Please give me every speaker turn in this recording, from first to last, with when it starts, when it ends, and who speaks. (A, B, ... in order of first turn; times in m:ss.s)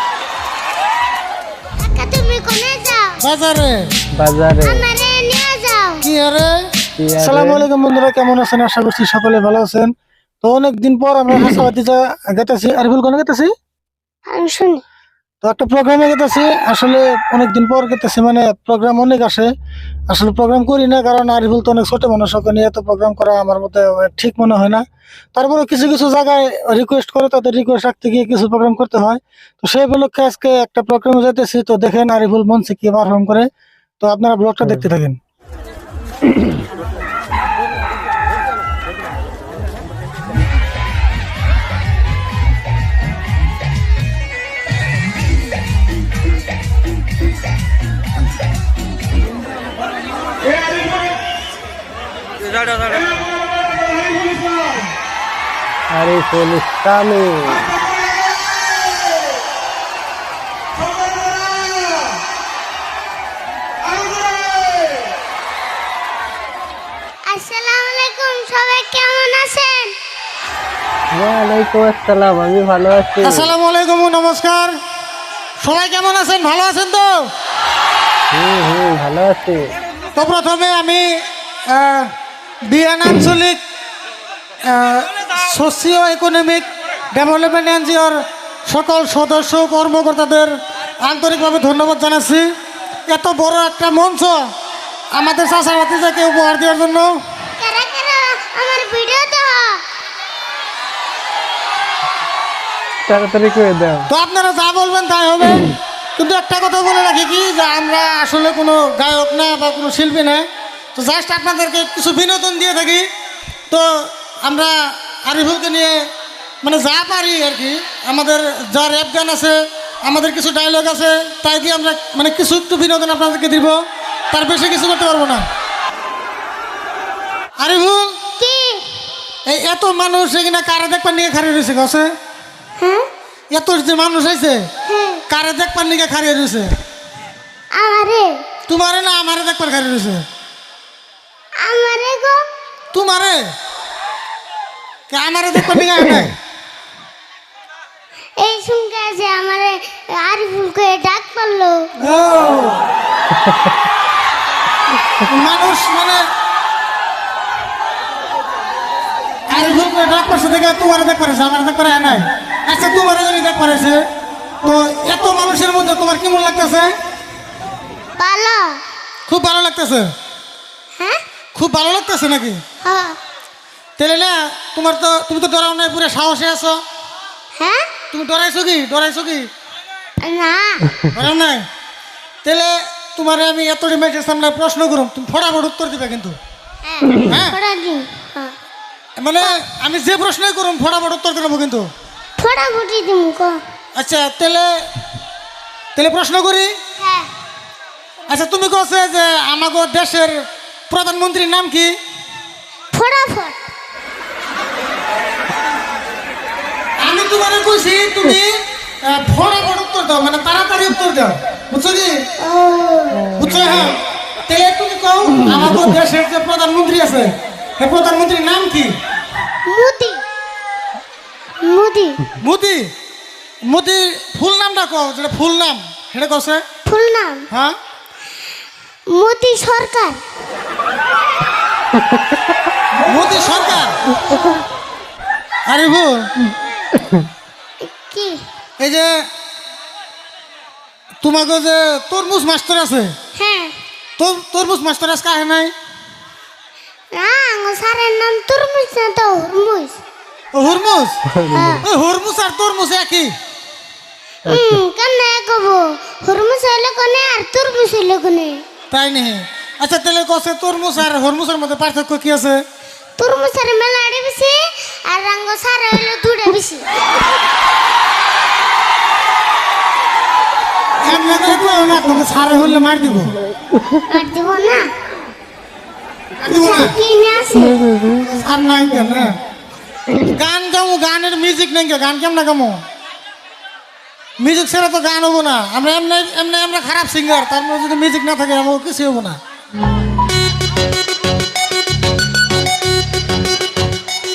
0:01.8-0:03.2 A
0:03.2-0:03.8 B
0:04.2-0:04.9 C
0:04.6-0:06.0 A
0:06.0-0:06.6 B
0:07.0-0:07.6 C
0:07.2-0:09.9 B
0:10.4-0:13.5 B
0:14.3-0:14.8 A
0:15.4-0:19.5 B
0:20.1-0:24.8 B
0:25.3-0:33.5 B
0:34.0-0:35.2 B
0:55.9-0:57.7 C
1:07.3-1:09.9 A
1:11.1-1:13.5 C
1:13.2-1:14.7 B
1:15.6-1:17.3 B
1:18.3-1:19.6 C
1:20.2-1:21.0 B
1:21.7-1:22.1 B
1:22.7-1:23.6 B
1:24.6-1:32.4 B
1:33.1-1:34.4 B
1:35.1-1:37.1 B
1:37.6-1:39.8 A
1:43.1-1:44.1 C
1:44.1-1:53.0 B
1:53.7-1:56.0 B
1:56.6-2:03.8 B
2:04.3-2:05.4 B
2:07.6-2:08.2 B
2:08.4-2:08.8 A
2:09.4-2:12.1 B
2:12.8-2:13.0 A
2:13.5-2:14.6 B
2:14.8-2:15.2 A
2:15.3-2:16.7 B
2:17.7-2:18.3 A
2:18.7-2:20.2 B
2:21.6-2:22.4 A
2:22.9-2:23.5 B
2:25.1-2:26.4 B
2:28.4-2:31.9 A
2:32.0-2:32.8 B
2:35.2-2:36.2 B
2:39.5-2:44.0 B
2:44.6-2:46.9 B
2:48.2-2:48.8 A
2:49.3-2:50.1 B
2:51.5-2:52.6 B
2:52.8-2:53.2 A
2:54.0-2:56.8 B
2:57.6-2:57.9 A
2:58.1-2:59.5 B
3:00.2-3:00.9 A
3:01.1-3:01.6 B
3:02.4-3:06.4 B
3:06.8-3:08.5 A
3:07.2-3:07.6 B
3:09.2-3:11.9 B
3:12.4-3:13.6 A
3:14.0-3:14.7 B
3:16.0-3:16.7 B
3:17.0-3:17.3 A
3:18.3-3:22.0 B
3:22.9-3:23.6 A
3:27.0-3:28.5 B
3:29.0-3:32.2 B
3:32.4-3:33.4 A
3:33.4-3:34.0 B
3:34.5-3:38.9 B
3:39.6-3:40.2 A
3:41.6-3:42.2 A
3:42.4-3:42.9 B
3:43.7-3:46.6 B
3:46.8-3:47.5 A
3:49.1-3:50.2 A
3:53.0-3:53.9 B
3:55.7-3:56.3 B
3:57.8-3:58.4 A
3:58.8-3:59.1 B
4:01.2-4:03.1 B
4:03.3-4:03.7 A
4:04.2-4:05.7 B
4:07.1-4:10.0 A
4:10.5-4:11.2 B
4:11.3-4:11.8 C
4:11.5-4:11.8 A
4:11.8-4:13.3 B
4:14.4-4:18.6 A
4:14.4-4:14.8 C
4:18.9-4:22.6 B
4:23.2-4:26.8 A
4:31.0-4:33.3 B
4:34.1-4:34.8 A
4:36.4-4:36.9 B
4:36.5-4:37.9 A
4:38.3-4:39.3 B
4:40.3-4:42.8 B
4:44.4-4:49.4 B